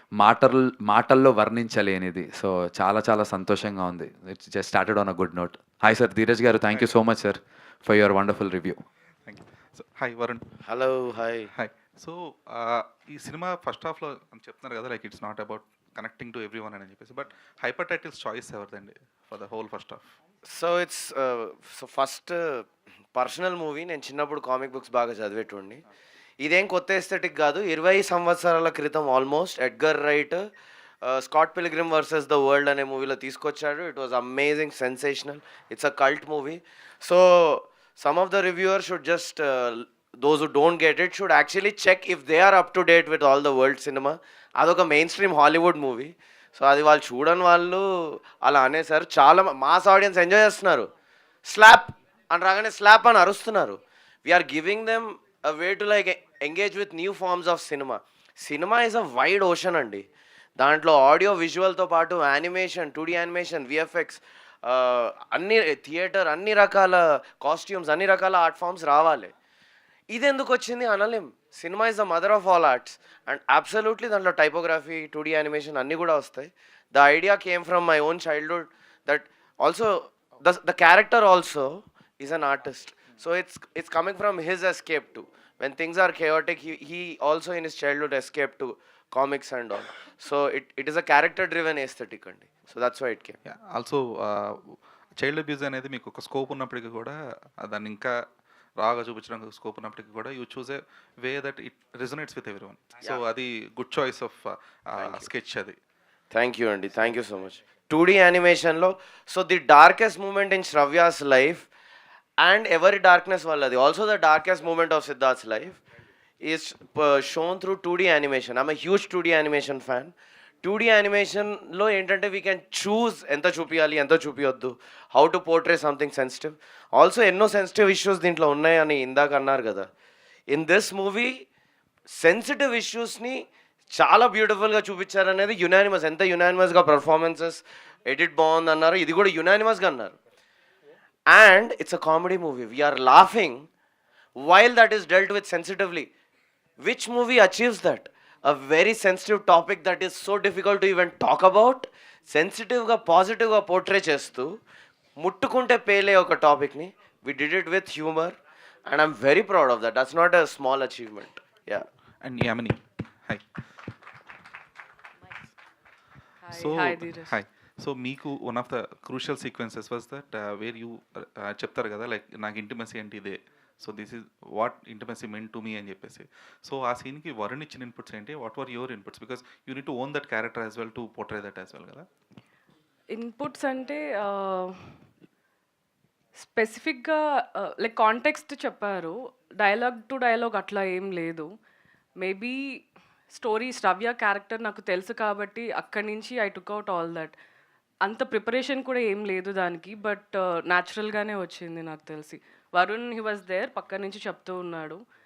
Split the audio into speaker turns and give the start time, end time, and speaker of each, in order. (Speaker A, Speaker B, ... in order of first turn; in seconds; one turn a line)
Speaker A: 0.2-8.8
Speaker B: 9.3-10.4
Speaker C: 10.7-11.5
Speaker B: 11.5-20.1
Speaker C: 20.5-25.8
Speaker C: 26.4-30.4
Speaker C: 31.0-50.9
Speaker C: 51.5-60.0
Speaker C: 60.6-69.3
Speaker C: 70.1-93.4
Speaker B: 93.5-98.2
Speaker B: 98.8-105.8
Speaker C: 105.0-105.2
Speaker C: 106.3-111.7
Speaker C: 112.4-115.8
Speaker C: 116.4-120.1
Speaker C: 120.6-129.9
Speaker C: 130.5-131.4
Speaker C: 132.1-133.4
Speaker C: 133.9-140.2
Speaker C: 141.3-143.7
Speaker C: 144.4-146.1
Speaker C: 146.8-154.5
Speaker C: 155.2-158.3
Speaker C: 158.9-161.8
Speaker B: 162.2-163.5
Speaker D: 166.4-167.4
Speaker B: 166.5-182.1
Speaker D: 183.1-184.9
Speaker D: 186.4-191.5
Speaker D: 192.2-192.8
Speaker D: 193.3-197.3
Speaker D: 198.1-205.0